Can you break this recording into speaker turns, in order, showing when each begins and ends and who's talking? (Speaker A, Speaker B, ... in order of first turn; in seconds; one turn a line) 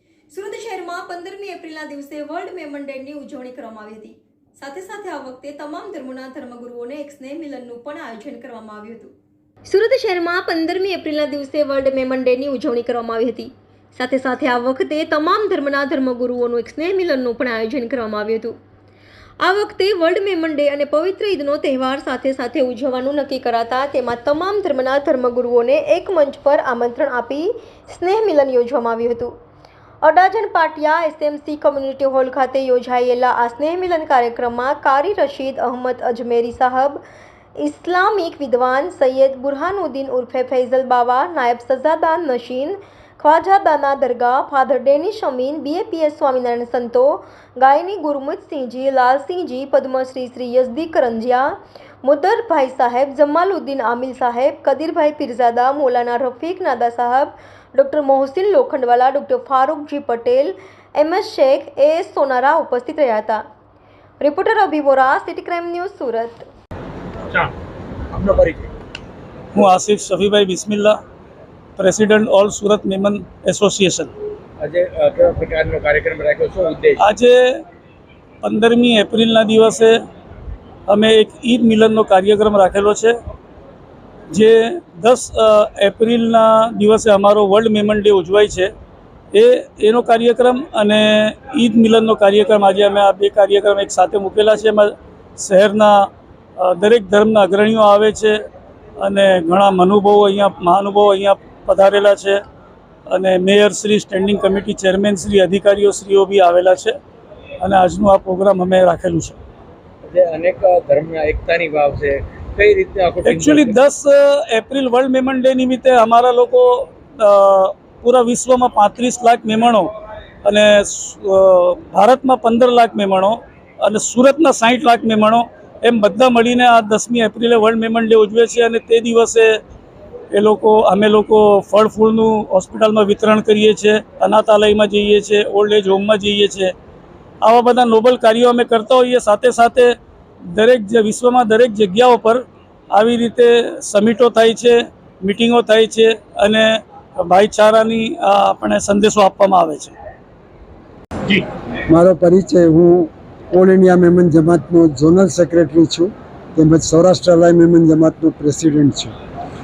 Speaker A: 0.3-9.1
Speaker A: 9.7-18.6
Speaker A: 19.4-29.4
Speaker A: 30.0-37.0
Speaker A: 37.6-63.4
Speaker A: 64.2-66.4
Speaker B: 68.1-68.7
Speaker C: 69.5-71.0
Speaker C: 71.8-74.1
Speaker B: 74.6-77.0
Speaker C: 77.0-77.6
Speaker C: 78.4-80.0
Speaker C: 80.9-83.1
Speaker C: 84.3-88.7
Speaker C: 89.3-98.4
Speaker C: 99.0-102.4
Speaker C: 103.1-107.0
Speaker C: 107.6-109.4
Speaker B: 110.0-113.8
Speaker C: 113.2-119.9
Speaker C: 120.4-129.6
Speaker C: 130.3-136.7
Speaker C: 137.4-139.9
Speaker C: 140.5-149.9
Speaker D: 151.9-159.1